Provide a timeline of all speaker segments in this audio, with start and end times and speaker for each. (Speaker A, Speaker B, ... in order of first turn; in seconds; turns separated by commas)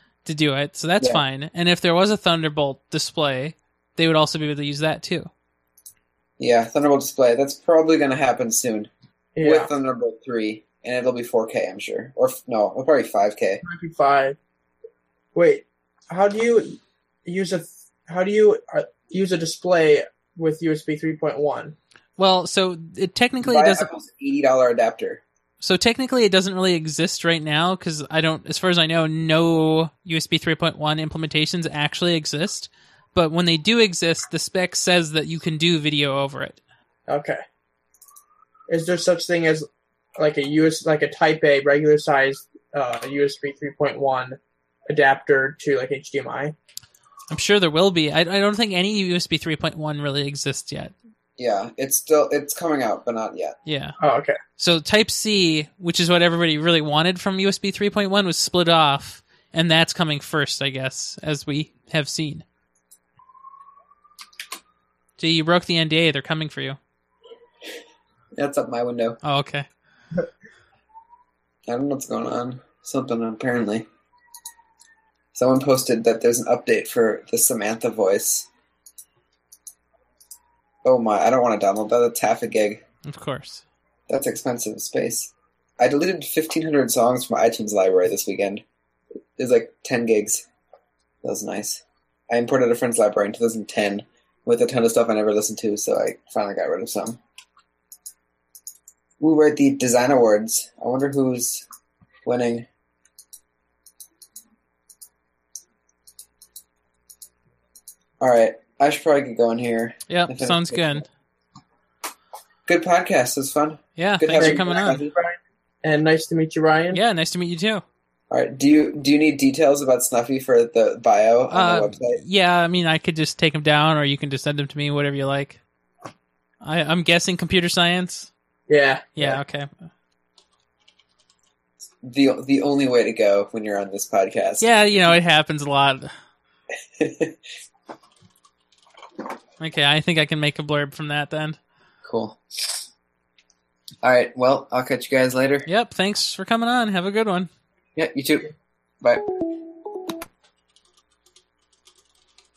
Speaker A: 0.2-5.3, Speaker B: 6.4-8.9, Speaker C: 9.3-9.7, Speaker B: 9.4-13.6, Speaker C: 13.6-14.4, Speaker C: 15.3-21.8, Speaker A: 22.2-23.9, Speaker B: 23.4-25.2, Speaker A: 25.6-36.6, Speaker C: 37.1-37.4, Speaker C: 38.7-39.6, Speaker C: 40.2-46.5, Speaker A: 47.3-50.9, Speaker B: 51.4-53.5, Speaker A: 53.6-53.9, Speaker C: 54.0-54.4, Speaker A: 54.6-62.4, Speaker A: 65.2-66.8, Speaker B: 68.3-69.2, Speaker A: 69.2-69.7, Speaker B: 71.7-73.8, Speaker B: 75.3-78.5, Speaker B: 80.8-82.8, Speaker A: 83.1-83.6, Speaker B: 84.1-88.6, Speaker B: 89.4-90.4, Speaker B: 91.2-97.2, Speaker B: 99.2-101.6, Speaker B: 102.2-102.7, Speaker B: 108.2-111.0, Speaker A: 110.1-111.0, Speaker B: 112.7-115.1, Speaker A: 114.0-115.0, Speaker C: 114.3-117.0, Speaker A: 116.9-117.8, Speaker B: 118.3-122.2, Speaker A: 121.5-125.6, Speaker A: 126.6-128.3, Speaker C: 128.7-129.1, Speaker A: 129.2-129.8, Speaker B: 132.0-134.7, Speaker A: 134.6-136.1, Speaker B: 137.0-137.4, Speaker A: 139.6-141.6, Speaker B: 142.0-142.8, Speaker B: 144.0-145.7, Speaker A: 145.7-147.5, Speaker B: 147.9-148.5, Speaker B: 149.0-149.3